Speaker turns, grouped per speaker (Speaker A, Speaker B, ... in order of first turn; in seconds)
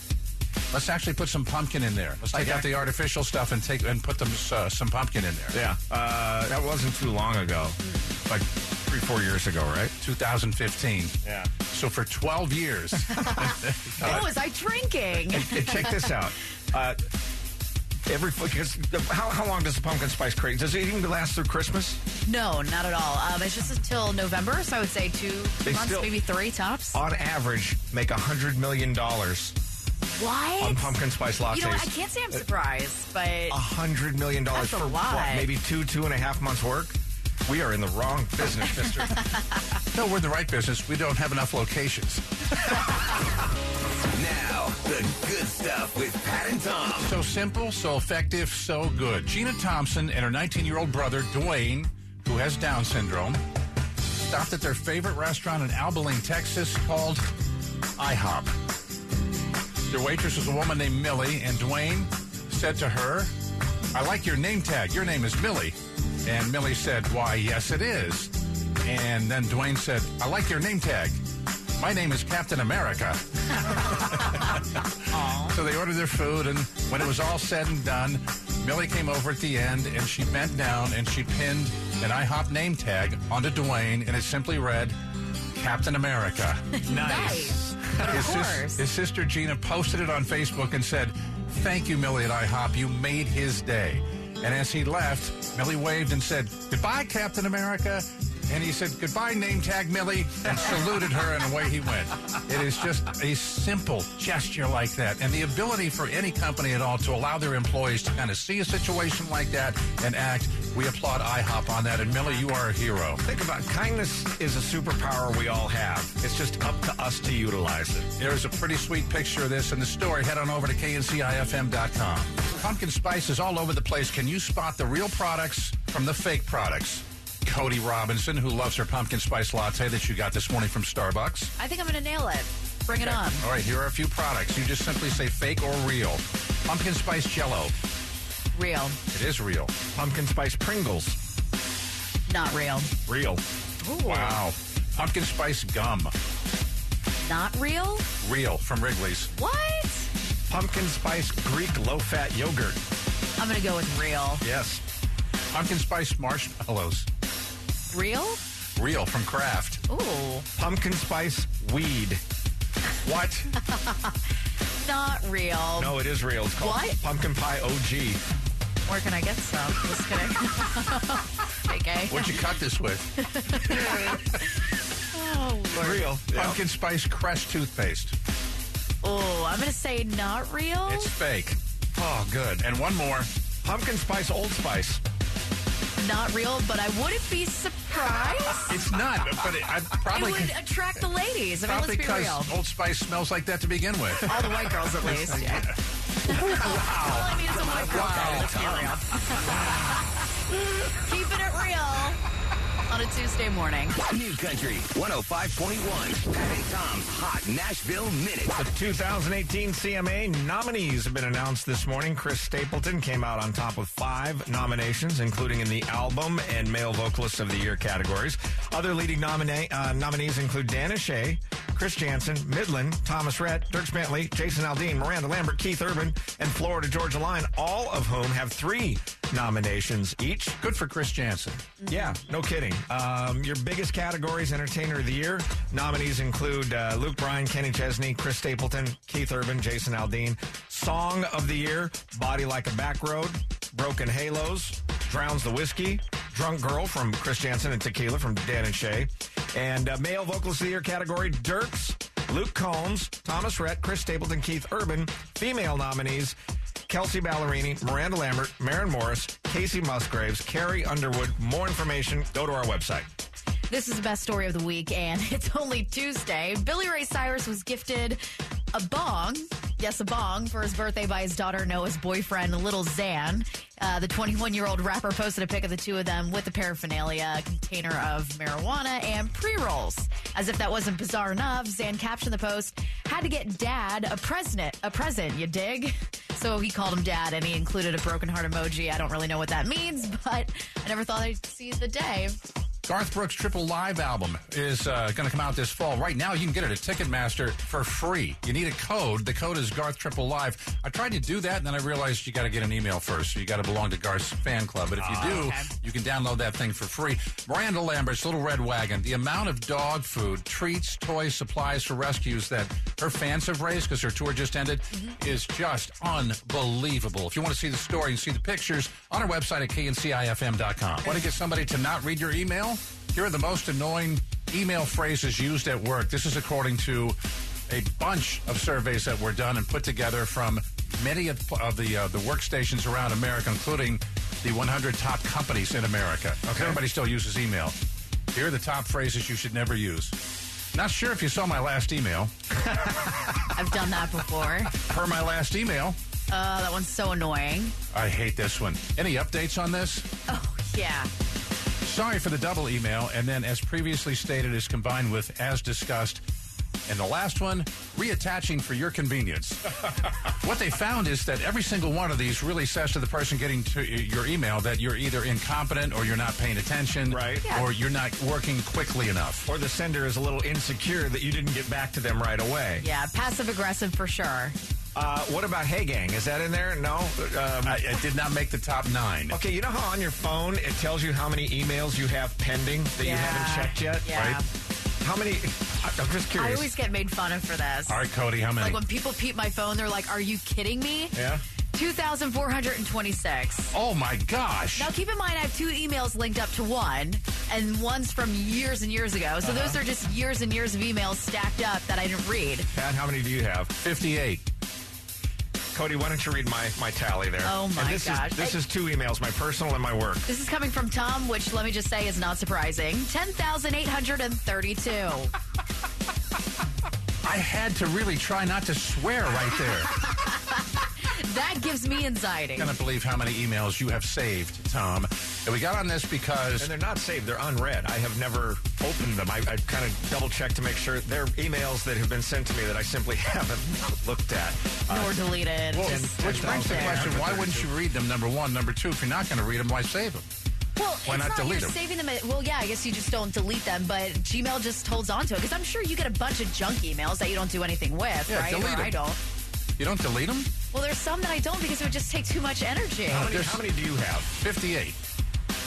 Speaker A: 0.7-5.6, 10.0-11.2, 11.7-14.3, 39.9-43.1, 47.0-53.4, 54.1-57.2, 58.0-58.5, 59.9-63.3, 63.9-71.2, 71.8-74.8, 75.4-85.0, 85.5-86.7, 88.1-113.2, 118.2-131.5, 132.9-137.7, 139.1-139.7, 144.0-146.1, 148.2-149.3, 155.5-157.1, 158.8-159.8, 163.0-163.5, 172.1-173.1, 176.3-178.1, 180.9-181.6, 182.6-183.3, 188.7-190.5, 191.6-194.3, 195.0-195.7, 196.3-199.0, 230.6-231.7, 292.8-327.2, 327.7-337.8, 338.3-340.1, 340.7-342.3, 344.8-346.0, 347.9-350.1, 351.8-356.2, 356.9-369.5, 377.6-379.4, 384.1-384.4, 387.9-388.8, 393.7-394.9, 403.8-404.4, 417.2-419.9, 422.6-426.7, 435.7-440.3, 441.1-441.8, 448.3-448.9, 449.8-450.5, 453.1-453.6, 454.3-455.0
Speaker B: 2.3-2.7, 5.5-9.9, 11.2-11.5, 14.0-14.3, 15.3-17.0, 18.1-22.0, 25.6-26.1, 26.9-29.5, 30.6-32.4, 33.5-39.2, 86.8-88.3, 113.2-118.1, 139.9-141.2, 143.1-143.4, 150.5-152.8, 154.4-154.8, 160.6-162.2, 165.8-168.2, 173.7-174.1, 175.7-176.6, 181.9-182.7, 183.6-185.0, 208.5-230.6, 231.9-256.3, 256.9-263.1, 305.0-305.5, 336.4-336.8, 367.1-367.4, 369.4-372.9, 374.9-377.8, 379.3-384.1, 385.0-386.7, 391.1-391.4, 399.4-399.8, 402.7-403.7, 405.7-410.3, 426.6-437.7, 453.1-454.3
Speaker C: 7.8-8.2, 13.1-16.1, 22.2-27.0, 30.0-30.9, 31.5-33.6, 34.5-35.5, 75.1-75.5, 86.7-88.8, 131.6-133.5, 138.5-139.0, 142.3-142.9, 143.8-144.4, 147.2-148.1, 149.3-150.1, 153.4-154.4, 157.9-158.4, 159.9-160.5, 163.6-164.1, 164.8-165.9, 166.6-167.0, 168.8-172.4, 173.2-174.5, 175.1-176.1, 179.0-181.1, 186.0-188.8, 190.1-192.6, 194.2-195.7, 196.2-200.0, 200.9-202.2, 202.9-204.0, 231.8-232.1, 263.7-268.2, 268.7-292.4, 305.2-305.7, 343.5-344.8, 346.3-347.7, 350.3-351.1, 372.8-374.6, 383.0-384.4, 386.3-388.0, 388.6-391.1, 391.7-393.7, 394.8-402.7, 407.4-408.6, 410.3-415.3, 419.7-422.8, 434.9-437.1, 440.8-449.2, 450.7-453.3
Speaker D: 44.1-47.1, 204.0-208.5